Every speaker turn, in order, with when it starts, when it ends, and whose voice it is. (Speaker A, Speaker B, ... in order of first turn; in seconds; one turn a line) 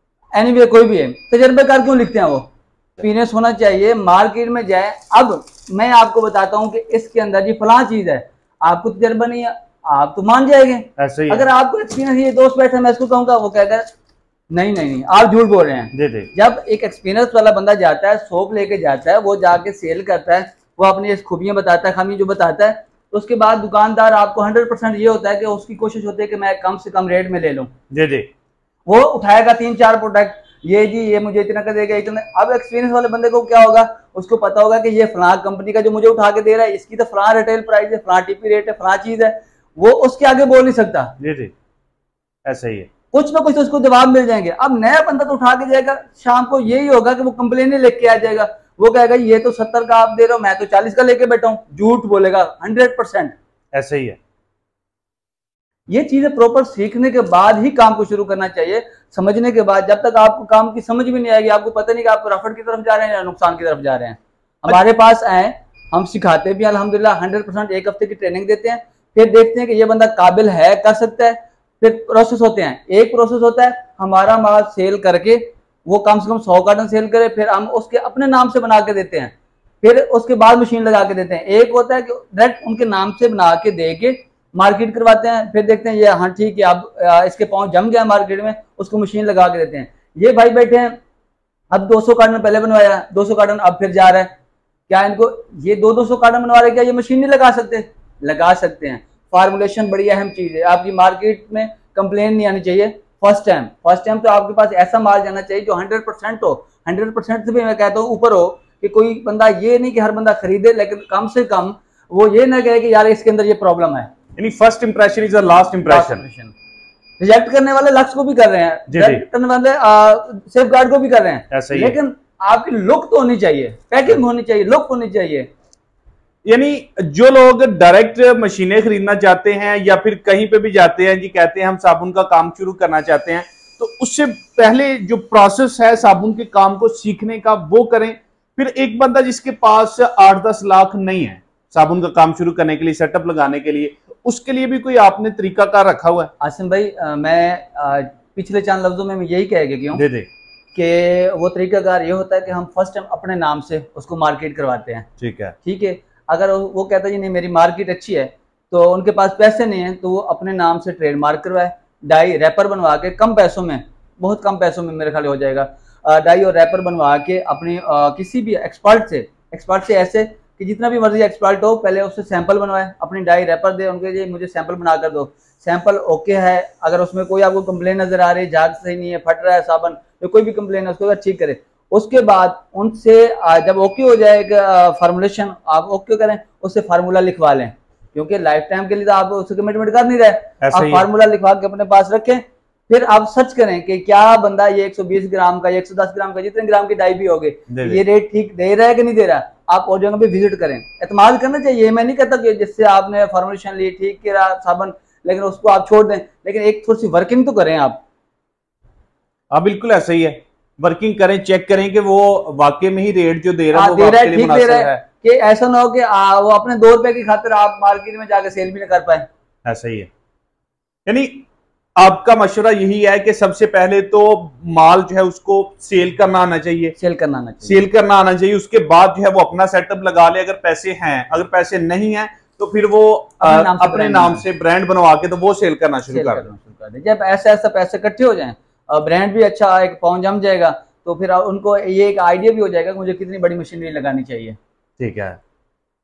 Speaker A: 0.3-13.9
Speaker B: 11.0-11.4
Speaker A: 14.5-27.7
Speaker B: 15.9-16.3
Speaker B: 27.9-28.3
Speaker A: 28.9-41.1
Speaker B: 41.2-41.5
Speaker B: 42.5-42.9
Speaker A: 43.1-53.4
Speaker B: 53.7-54.2
Speaker A: 55.9-91.0
Speaker A: 91.7-94.3
Speaker A: 94.9-114.1
Speaker B: 114.3-116.2
Speaker A: 115.8-116.5
Speaker A: 117.2-125.5
Speaker B: 118.9-119.2
Speaker B: 121.5-122.0
Speaker B: 126.4-146.3
Speaker A: 146.4-150.0
Speaker B: 149.9-150.3
Speaker A: 150.7-155.1
Speaker B: 155.2-155.5
Speaker A: 155.6-208.0
Speaker B: 190.6-191.1
Speaker B: 197.7-198.0
Speaker B: 209.5-214.9
Speaker A: 213.7-219.3
Speaker B: 219.7-220.1
Speaker B: 221.1-221.4
Speaker B: 222.0-226.9
Speaker A: 227.0-227.8
Speaker B: 227.6-236.5
Speaker A: 233.4-234.4
Speaker A: 236.1-244.6
Speaker B: 245.0-245.4